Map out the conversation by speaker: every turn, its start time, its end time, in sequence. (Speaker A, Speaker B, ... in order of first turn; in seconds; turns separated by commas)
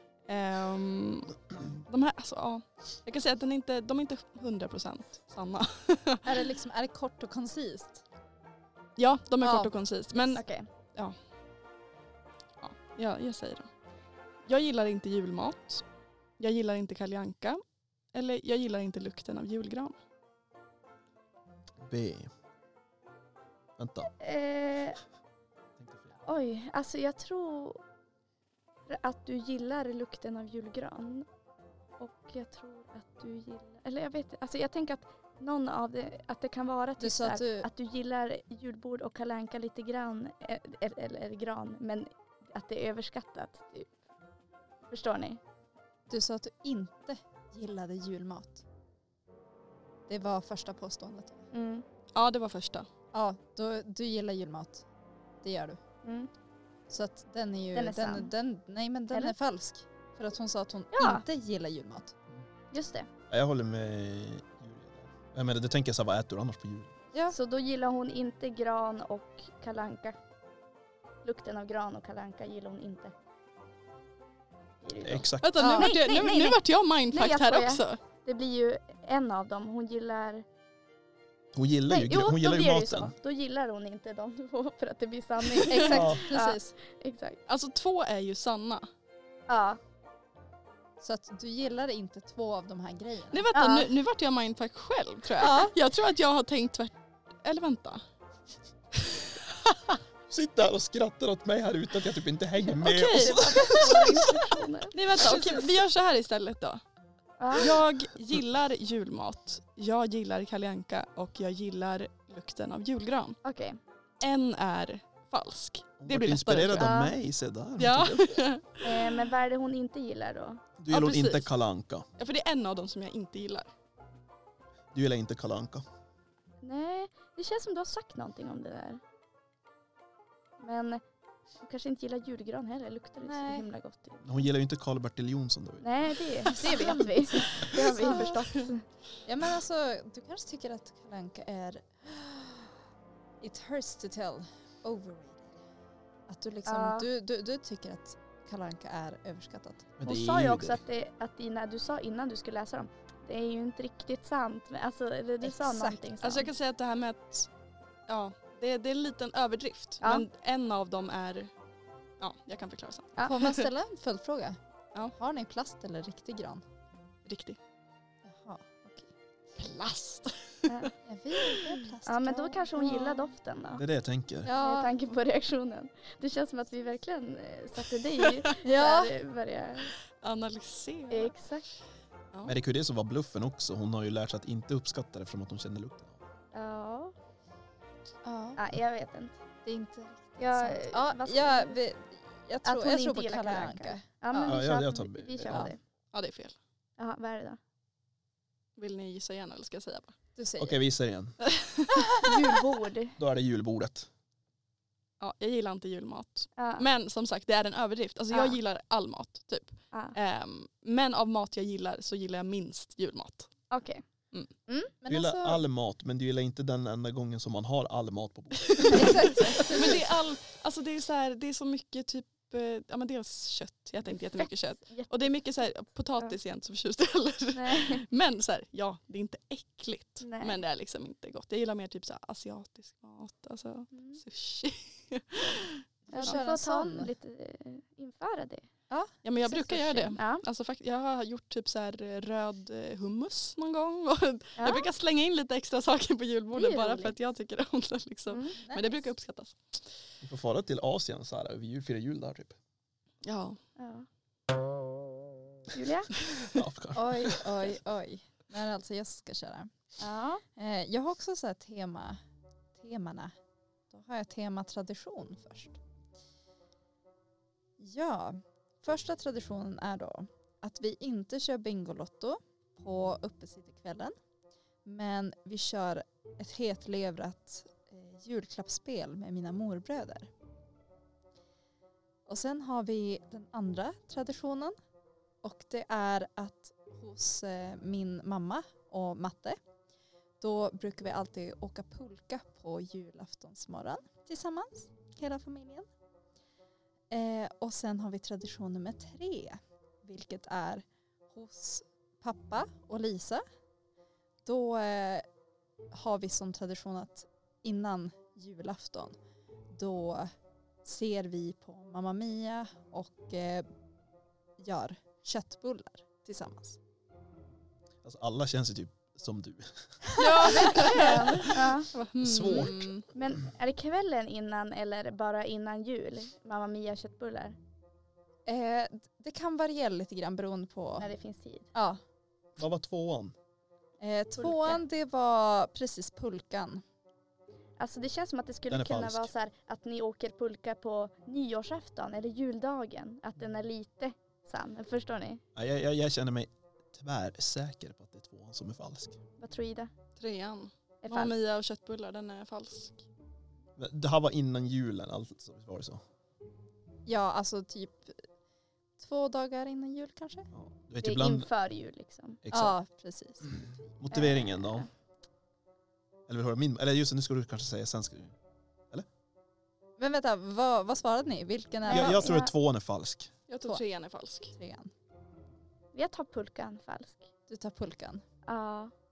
Speaker A: 0.3-6.4, Speaker B: 6.2-8.0, Speaker A: 9.0-11.1, Speaker B: 9.4-9.7, Speaker C: 10.3-10.7, Speaker A: 12.6-13.7, Speaker A: 14.4-15.8, Speaker A: 16.4-17.6, Speaker A: 18.1-19.9, Speaker D: 21.8-22.3, Speaker D: 23.8-24.1, Speaker C: 24.2-25.0, Speaker D: 25.8-26.2, Speaker C: 26.2-27.8, Speaker C: 28.9-31.3, Speaker C: 32.0-43.9, Speaker B: 37.0-37.7, Speaker C: 44.9-45.4, Speaker B: 46.1-48.6, Speaker B: 50.1-51.5, Speaker C: 51.5-51.8, Speaker A: 52.1-52.9, Speaker B: 53.1-54.8, Speaker B: 55.4-55.8, Speaker C: 56.0-56.3, Speaker B: 56.9-62.1, Speaker C: 57.7-58.3, Speaker C: 60.9-61.2, Speaker C: 62.7-63.1, Speaker D: 63.3-66.9, Speaker C: 67.3-70.2, Speaker C: 71.2-73.1, Speaker C: 74.8-76.6, Speaker D: 75.0-75.6, Speaker A: 75.4-78.0, Speaker B: 75.6-76.3, Speaker C: 77.1-80.4, Speaker D: 81.5-83.1, Speaker C: 81.9-87.4, Speaker B: 85.7-86.7, Speaker D: 85.9-86.2, Speaker A: 87.5-88.9, Speaker C: 89.5-89.8, Speaker B: 91.0-93.5, Speaker A: 93.3-98.0, Speaker C: 93.5-93.9, Speaker B: 95.4-95.8, Speaker A: 98.9-100.0, Speaker D: 100.3-104.3, Speaker A: 102.6-104.2, Speaker C: 103.1-105.4, Speaker A: 104.9-106.8, Speaker B: 105.2-105.6, Speaker C: 107.4-107.8, Speaker A: 107.5-113.4, Speaker C: 113.4-113.8, Speaker A: 114.2-117.0, Speaker D: 116.0-118.4, Speaker C: 116.7-117.1, Speaker A: 117.8-119.2, Speaker C: 118.8-120.6, Speaker D: 120.8-122.0, Speaker A: 120.9-121.5, Speaker A: 122.2-123.7, Speaker D: 124.9-125.8, Speaker C: 126.6-129.0, Speaker C: 130.6-131.0, Speaker C: 131.6-134.4, Speaker B: 133.2-133.7, Speaker D: 134.2-135.9, Speaker C: 135.8-138.8, Speaker B: 136.5-138.3, Speaker A: 137.8-138.7, Speaker B: 139.2-142.8, Speaker B: 143.4-145.6, Speaker B: 146.3-149.9, Speaker C: 146.7-147.1, Speaker D: 150.0-150.8, Speaker C: 150.0-156.5, Speaker B: 155.4-156.0, Speaker A: 156.2-157.5, Speaker A: 158.1-161.5, Speaker A: 162.2-163.7, Speaker B: 163.2-164.6, Speaker B: 165.1-166.6, Speaker A: 167.2-167.6, Speaker B: 168.2-169.1, Speaker A: 169.5-170.9, Speaker C: 170.7-170.9, Speaker B: 171.0-173.0, Speaker A: 171.4-171.7, Speaker C: 172.0-173.8, Speaker D: 173.7-174.5, Speaker B: 174.4-174.9, Speaker C: 174.6-179.9, Speaker B: 178.6-179.1, Speaker A: 180.2-181.3, Speaker C: 181.1-181.7, Speaker D: 182.4-186.2, Speaker C: 186.5-187.1, Speaker B: 188.2-188.6, Speaker C: 188.6-189.4, Speaker B: 189.6-194.6, Speaker C: 190.4-191.8, Speaker C: 192.6-195.8, Speaker D: 194.4-195.7, Speaker A: 196.1-196.6, Speaker C: 197.0-197.6, Speaker A: 198.8-200.1, Speaker B: 200.3-200.8, Speaker D: 200.6-201.4, Speaker A: 201.4-202.1, Speaker C: 202.2-203.2, Speaker D: 203.2-204.1, Speaker A: 205.2-213.5, Speaker C: 206.6-206.8, Speaker C: 208.3-208.6, Speaker C: 213.7-214.0, Speaker B: 215.0-215.6, Speaker D: 215.1-220.0, Speaker A: 218.7-236.3, Speaker B: 218.9-220.0, Speaker C: 224.4-225.3, Speaker C: 227.5-228.1, Speaker C: 230.2-230.6, Speaker C: 233.9-234.2, Speaker B: 236.1-237.1, Speaker C: 236.1-238.7, Speaker B: 238.9-240.2, Speaker A: 239.2-249.8, Speaker C: 240.1-240.4, Speaker C: 244.6-244.9, Speaker C: 246.5-247.1, Speaker C: 248.3-248.6, Speaker B: 248.6-249.1, Speaker D: 250.2-252.6, Speaker A: 253.2-253.6, Speaker C: 253.8-254.1, Speaker C: 255.7-256.1, Speaker D: 256.4-257.7, Speaker B: 256.9-259.7, Speaker C: 260.0-260.4, Speaker B: 260.6-262.2, Speaker B: 262.8-263.3, Speaker B: 263.9-265.8, Speaker B: 267.8-274.1, Speaker B: 274.8-280.3, Speaker B: 282.3-284.7, Speaker B: 285.4-289.6, Speaker B: 290.4-295.9, Speaker B: 297.1-303.4, Speaker B: 304.4-305.2, Speaker B: 305.9-309.1, Speaker B: 309.7-310.3, Speaker B: 310.8-313.7, Speaker B: 314.6-316.8, Speaker D: 318.0-319.7, Speaker B: 320.1-320.6, Speaker A: 320.1-323.1, Speaker C: 320.4-321.9, Speaker D: 322.2-322.9, Speaker C: 323.1-327.6, Speaker B: 328.4-331.1, Speaker C: 331.0-331.7, Speaker B: 331.7-332.0, Speaker D: 332.6-333.3, Speaker B: 334.0-336.8, Speaker C: 334.4-334.8, Speaker C: 337.8-345.4, Speaker D: 338.7-339.3, Speaker D: 345.5-349.2, Speaker C: 349.4-349.9, Speaker A: 350.2-353.0, Speaker C: 351.0-351.4, Speaker D: 353.8-356.0, Speaker B: 357.1-358.2, Speaker B: 359.0-360.5, Speaker D: 360.5-361.5, Speaker C: 361.0-362.4, Speaker D: 362.4-362.8, Speaker B: 362.5-363.4, Speaker D: 364.0-364.9, Speaker C: 364.1-364.9, Speaker D: 366.3-368.3, Speaker B: 370.0-372.3, Speaker C: 371.9-372.5, Speaker D: 371.9-373.3, Speaker A: 373.5-374.5, Speaker B: 374.5-374.9, Speaker C: 375.9-377.3, Speaker B: 377.5-378.2, Speaker C: 378.4-378.9